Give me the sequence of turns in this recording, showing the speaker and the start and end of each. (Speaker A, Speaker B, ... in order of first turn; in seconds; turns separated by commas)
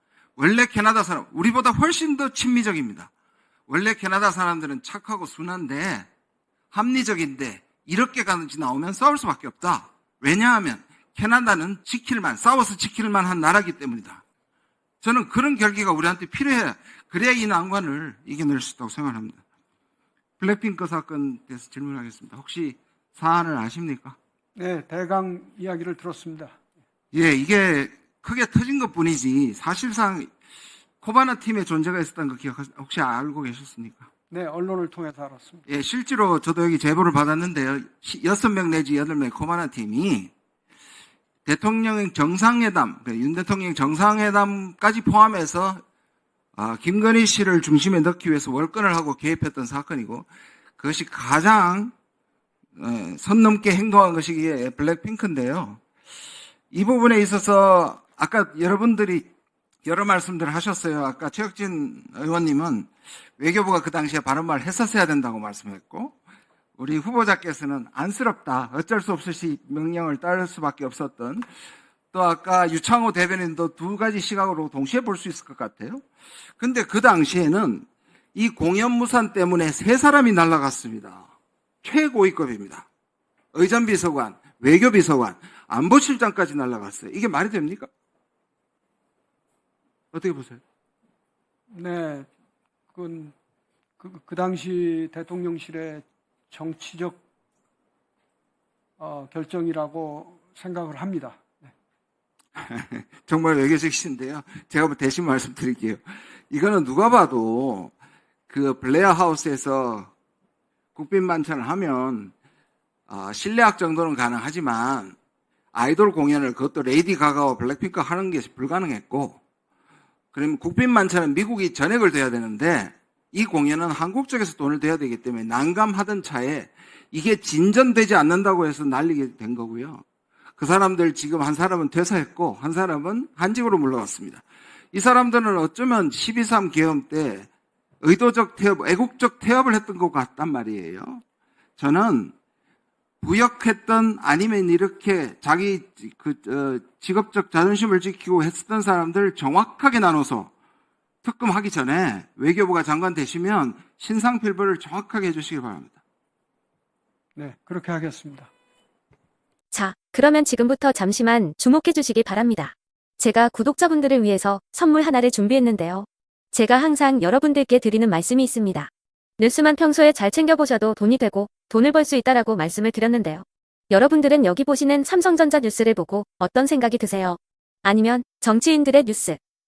Speaker A: 0.4-3.1, Speaker A: 3.7-6.1, Speaker A: 6.7-14.2, Speaker A: 15.0-19.4, Speaker A: 20.4-24.2, Speaker B: 24.6-26.6, Speaker A: 27.1-30.3, Speaker A: 31.0-34.1, Speaker B: 34.3-35.7, Speaker A: 35.7-40.3, Speaker A: 41.5-45.8, Speaker A: 46.6-50.3, Speaker A: 50.8-51.9, Speaker A: 52.8-55.8, Speaker A: 56.7-59.3, Speaker A: 59.9-66.2, Speaker A: 66.8-71.5, Speaker A: 72.1-76.0, Speaker A: 76.6-81.3, Speaker A: 81.8-82.9, Speaker A: 83.5-87.9, Speaker A: 90.1-90.6, Speaker B: 91.7-92.3, Speaker B: 92.9-93.3, Speaker B: 94.0-97.2, Speaker B: 99.0-101.7, Speaker A: 102.6-107.9, Speaker A: 108.5-110.1, Speaker A: 111.0-112.3, Speaker A: 113.1-115.2, Speaker A: 115.7-119.4, Speaker A: 120.3-130.0, Speaker A: 130.6-137.5, Speaker A: 138.0-141.2, Speaker A: 141.8-142.3, Speaker A: 143.2-150.5, Speaker A: 151.2-156.0, Speaker B: 157.3-158.5, Speaker C: 159.7-179.4